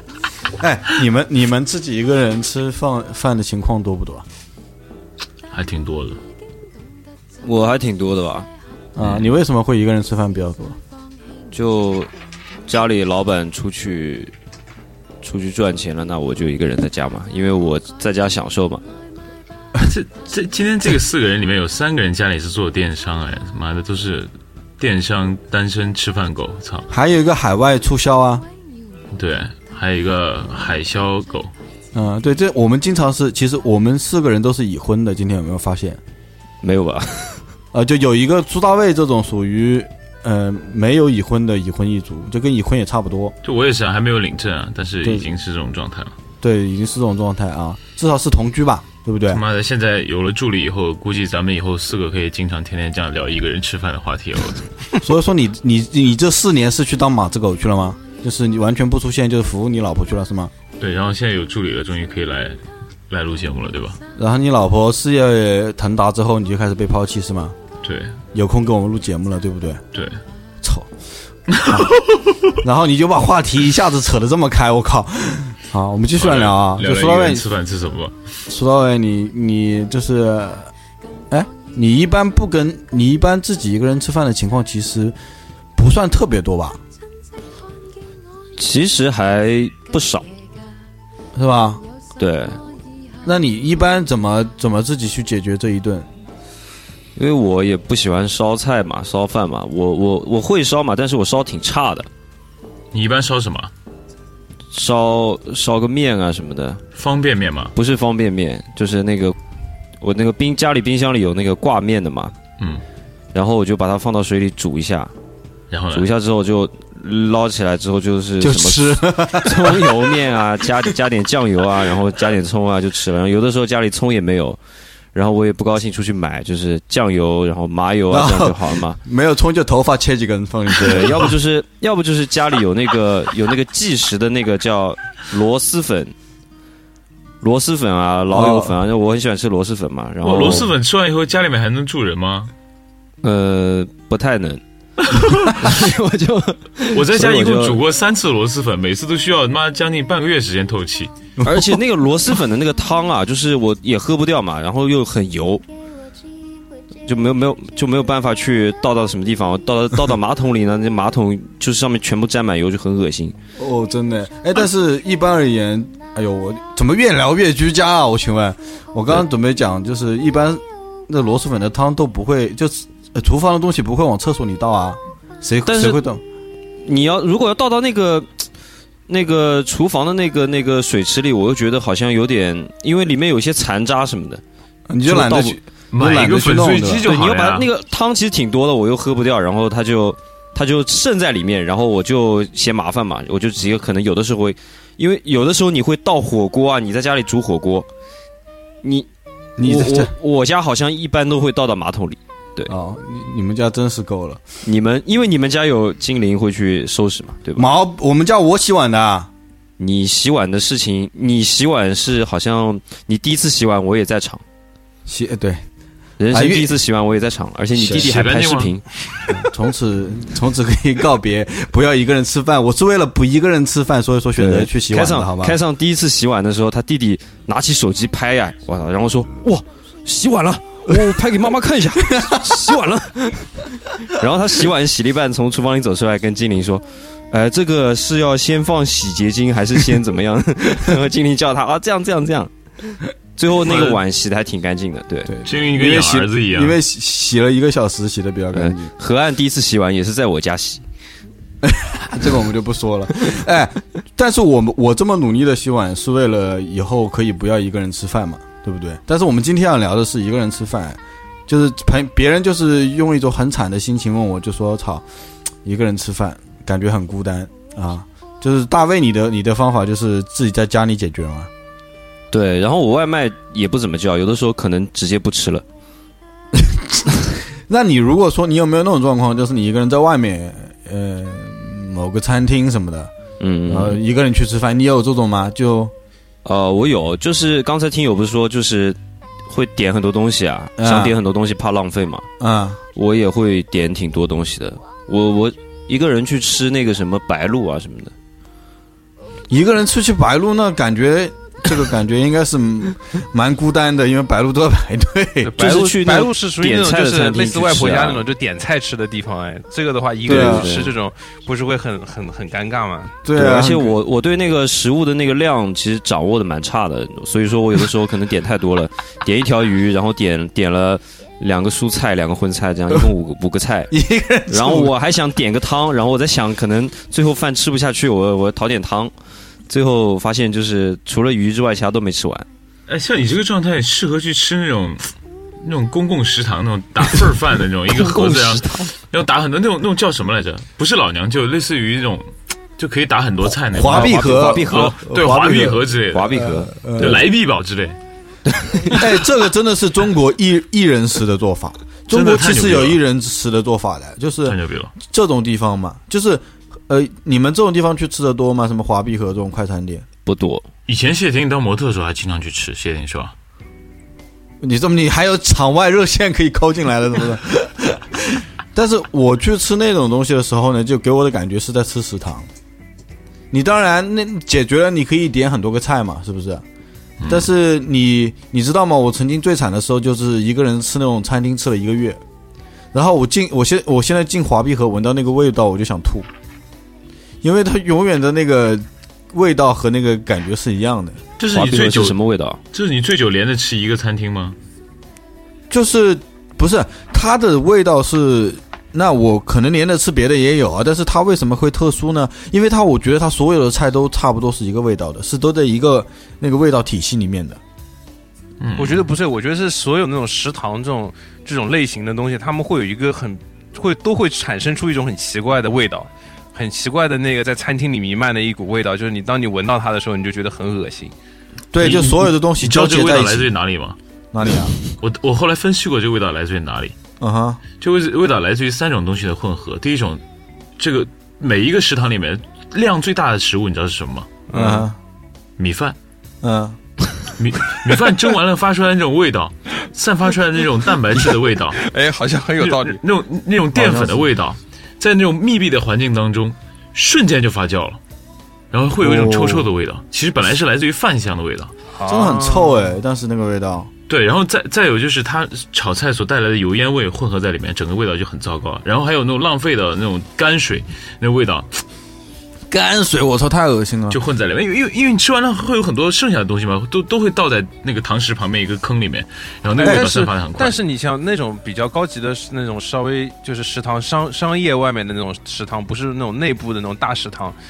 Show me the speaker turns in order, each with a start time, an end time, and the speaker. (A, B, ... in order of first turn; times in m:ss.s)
0:00.6-0:04.2 A
0:05.5-0:06.2 B
0:07.4-0:08.5 C
0:08.9-0:10.8 A
0:09.0-0:09.3 B
0:11.5-0:12.1 C
0:12.7-0:14.3 C
0:15.2-0:18.8 C
0:19.8-0:26.9 B
0:26.9-0:28.4 A
0:29.1-0:31.5 B
0:31.9-0:36.0 A
0:36.6-0:37.4 C
0:37.7-0:43.3 A
0:43.4-0:46.1 B
0:46.4-0:49.4 A
0:49.3-0:54.7 B
0:55.0-1:00.5 A
1:00.8-1:02.6 B
1:03.1-1:04.0 B
1:04.2-1:07.6 A
1:07.8-1:08.2 B
1:08.3-1:09.8 A
1:09.9-1:10.2 B
1:10.6-1:10.9 A
1:11.5-1:12.4 B
1:11.6-1:11.9 A
1:12.6-1:17.5 A
1:16.2-1:18.2 B
1:18.5-1:20.7 A
1:21.3-1:25.2 A
1:25.8-1:26.8 A
1:28.6-1:30.3 C
1:31.3-1:31.8 A
1:32.2-1:32.6 C
1:33.2-1:36.1 A
1:37.2-1:42.1 C
1:42.9-1:43.7 B
1:44.7-1:46.8 C
1:46.9-1:47.7 B
1:47.7-1:49.4 C
1:50.0-1:52.3 C
1:53.3-1:55.1 C
1:55.7-1:56.0 B
1:55.9-2:04.6 C
1:58.4-2:00.0 A
2:05.1-2:09.0 C
2:08.1-2:11.3 A
2:10.7-2:16.1 C
2:17.4-2:20.7 C
2:18.3-2:18.8 A
2:20.2-2:22.5 B
2:23.2-2:24.6 C
2:25.1-2:25.6 B
2:25.5-2:27.8 C
2:26.9-2:31.1 B
2:31.4-2:31.8 A
2:31.4-2:35.6 C
2:37.0-2:43.4 C
2:43.6-2:56.2 A
2:55.6-2:56.0 C
2:56.8-2:58.3 C
2:59.1-3:04.4 C
3:04.9-3:07.0 A
3:05.0-3:05.6 C
3:05.9-3:07.7 B
3:07.0-3:17.9 C
3:18.8-3:19.1 C
3:19.6-3:20.1 A
3:19.6-3:22.7 C
3:22.6-3:24.4 A
3:24.6-3:27.7 C
3:27.6-3:29.3 A
3:29.8-3:34.4 C
3:35.0-3:35.6 A
3:36.2-3:38.8 C
3:36.3-3:36.7 A
3:37.8-3:38.7 B
3:37.9-3:38.2 A
3:39.3-3:45.6 A
3:44.4-4:05.3 C
3:52.0-3:52.6 A
4:03.7-4:03.9 B
4:05.3-4:08.9 A
4:05.4-4:06.8 B
4:08.5-4:10.8 C
4:11.6-4:25.0 A
4:25.6-4:31.5 A
4:32.3-4:35.6 C
4:36.5-4:37.1 A
4:37.7-4:43.1 A
4:43.4-4:44.0 C
4:43.7-4:45.9 A
4:46.4-4:52.2 C
4:50.8-4:51.1 A
4:52.4-4:52.8 A
4:52.9-4:58.1 C
4:59.5-5:05.5 A
5:05.4-5:13.2 D
5:05.6-5:08.2 C
5:10.2-5:10.9 A
5:10.3-5:10.9 C
5:13.2-5:14.0 A
5:13.3-5:23.9 C
5:23.9-5:24.9 A
5:24.5-5:29.1 C
5:29.7-5:32.5 C
5:32.9-5:35.1 B
5:35.6-5:48.0 B
5:37.9-5:38.9 C
5:43.5-5:47.2 A
5:43.8-5:45.0 C
5:46.1-5:47.1 C
5:48.6-5:48.9 C
5:48.9-6:00.0 A
5:52.1-5:53.0 B
5:54.4-5:54.9 B
6:00.2-6:00.6 C
6:00.9-6:03.3 B
6:04.6-6:12.5 A
6:13.5-6:16.6 A
6:17.2-6:17.5 B
6:17.2-6:22.2 A
6:22.9-6:26.3 A
6:27.4-6:31.2 A
6:31.4-6:32.2 B
6:31.5-6:32.6 C
6:32.7-6:34.6 B
6:35.7-6:47.6 A
6:48.6-6:49.1 B
6:48.8-7:01.1 D
7:01.7-7:03.5 A
7:01.8-7:04.0 B
7:04.3-7:04.8 A
7:04.9-7:06.9 B
7:07.2-7:07.6 A
7:07.8-7:10.2 B
7:10.8-7:14.3 B
7:14.5-7:14.9 D
7:14.5-7:15.0 A
7:15.6-7:16.0 B
7:16.4-7:16.8 A
7:17.3-7:21.8 B
7:21.8-7:23.0 D
7:22.6-7:28.0 B
7:23.7-7:24.3 A
7:28.7-7:31.7 B
7:29.0-7:29.7 A
7:31.9-7:32.9 D
7:32.0-7:33.9 A
7:34.1-7:41.8 B
7:42.7-7:44.2 A
7:44.1-7:50.8 B
7:49.8-7:57.6 D